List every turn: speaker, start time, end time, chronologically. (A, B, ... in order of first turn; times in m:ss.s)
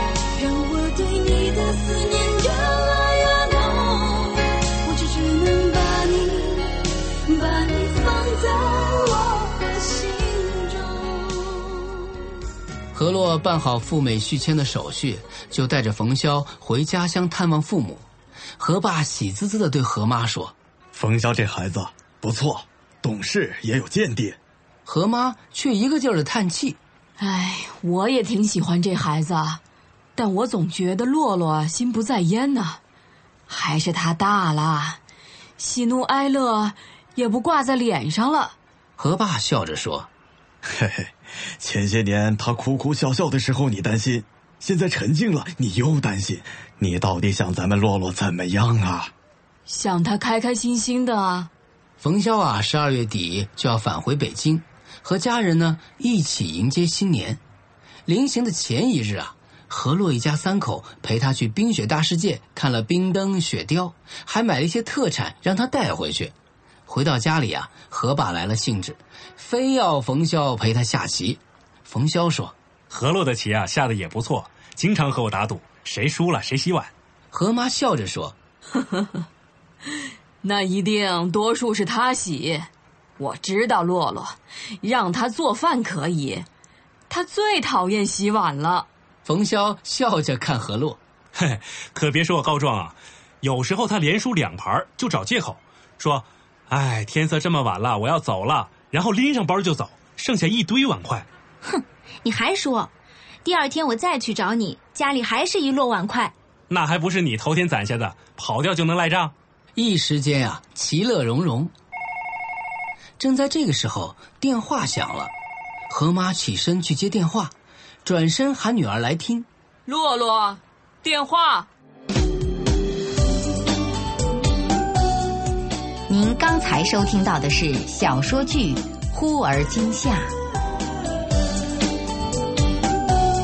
0:00.4-0:11.3 A
0:12.9-0:18.0 B
0:18.6-0:20.5 B
0:20.9-0:24.4 C
0:24.8-0:26.8 B
0:27.2-0:29.6 D
0:30.2-0:32.8 D
0:33.5-0:35.0 D
0:35.6-0:38.5 D
0:39.0-0:40.1 B
0:40.6-0:49.1 C
0:49.7-0:51.5 D
0:52.0-0:57.4 B
0:58.1-1:06.3 B
1:06.9-1:12.5 B
1:12.9-1:16.9 E
1:17.3-1:18.4 B
1:18.7-1:19.2 D
1:20.4-1:26.4 D
1:27.1-1:28.9 D
1:29.2-1:31.0 B
1:31.3-1:41.2 E
1:41.6-1:42.9 F
1:43.4-1:46.3 F
1:46.7-1:49.3 E
1:49.8-1:51.7 B
1:53.2-1:55.3 B
1:55.9-1:57.5 B
1:58.0-1:59.5 B
1:59.9-2:01.7 D
2:06.1-2:10.3 G